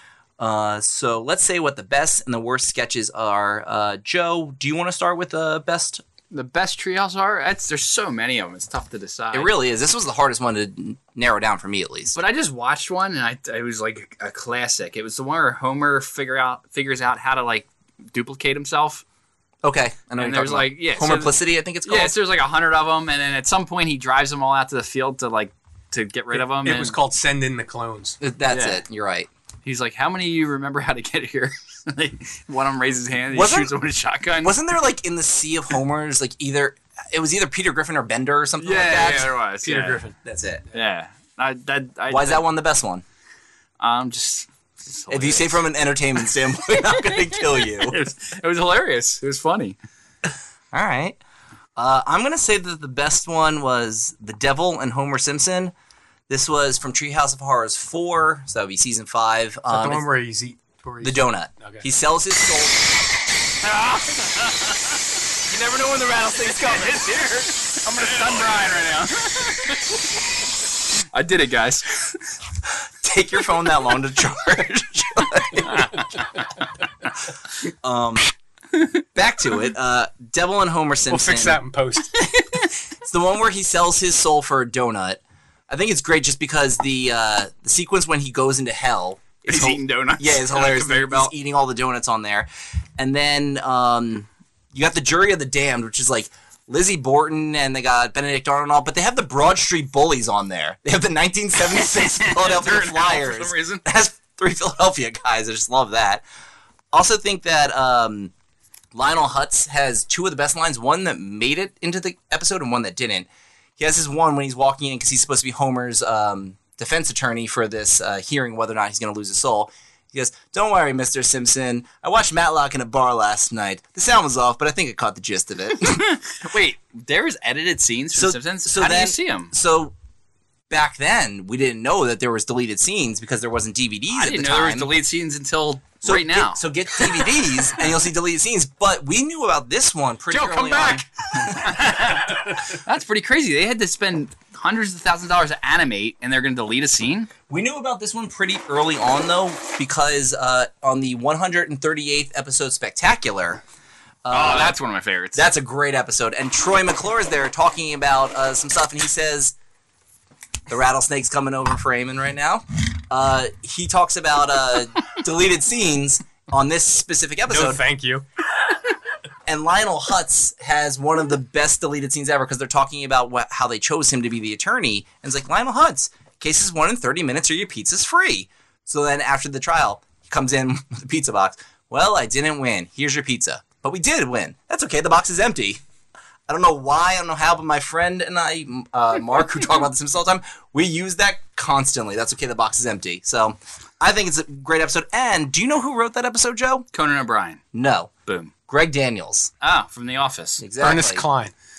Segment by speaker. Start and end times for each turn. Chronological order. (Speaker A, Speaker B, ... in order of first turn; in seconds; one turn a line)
Speaker A: 0.4-6.0
Speaker B: 6.3-9.5
Speaker A: 9.3-12.2
Speaker B: 12.1-19.0
Speaker A: 19.6-22.1
Speaker B: 20.2-27.0
Speaker C: 26.3-28.2
Speaker A: 28.2-29.3
Speaker B: 28.5-28.8
Speaker B: 29.6-34.5
Speaker A: 33.3-33.7
Speaker A: 34.4-39.3
Speaker B: 38.6-40.0
Speaker C: 39.6-40.1
Speaker A: 40.2-40.6
Speaker B: 40.7-42.4
Speaker A: 42.1-43.0
Speaker B: 43.8-45.6
Speaker A: 45.1-48.0
Speaker B: 47.8-49.8
Speaker A: 50.7-51.2
Speaker A: 51.8-55.7
Speaker A: 56.3-60.0
Speaker C: 59.7-61.8
Speaker A: 61.0-62.8
Speaker B: 63.6-65.0
Speaker A: 65.5-67.5
Speaker B: 66.5-70.0
Speaker B: 71.1-72.2
Speaker A: 73.0-76.0
Speaker B: 75.7-76.0
Speaker A: 77.7-78.3
Speaker A: 79.1-81.6
Speaker C: 81.1-82.2
Speaker A: 83.0-106.2
Speaker B: 89.5-91.3
Speaker B: 101.7-103.8
Speaker A: 106.9-108.3
Speaker A: 108.9-113.3
Speaker A: 113.8-126.1
Speaker B: 125.8-129.5
Speaker A: 128.1-129.9
Speaker A: 130.7-134.9
Speaker B: 134.1-136.6
Speaker A: 136.0-141.0
Speaker C: 140.3-141.7
Speaker B: 141.5-147.3
Speaker A: 147.5-153.6
Speaker A: 154.2-154.8
Speaker B: 154.3-155.5
Speaker A: 155.3-159.5
Speaker A: 160.7-167.8
Speaker C: 167.5-168.2
Speaker A: 169.5-185.8
Speaker A: 186.5-196.8
Speaker B: 196.9-197.6
Speaker A: 197.7-198.1
Speaker A: 198.7-199.5
Speaker B: 199.6-200.6
Speaker A: 200.6-201.2
Speaker C: 200.8-201.5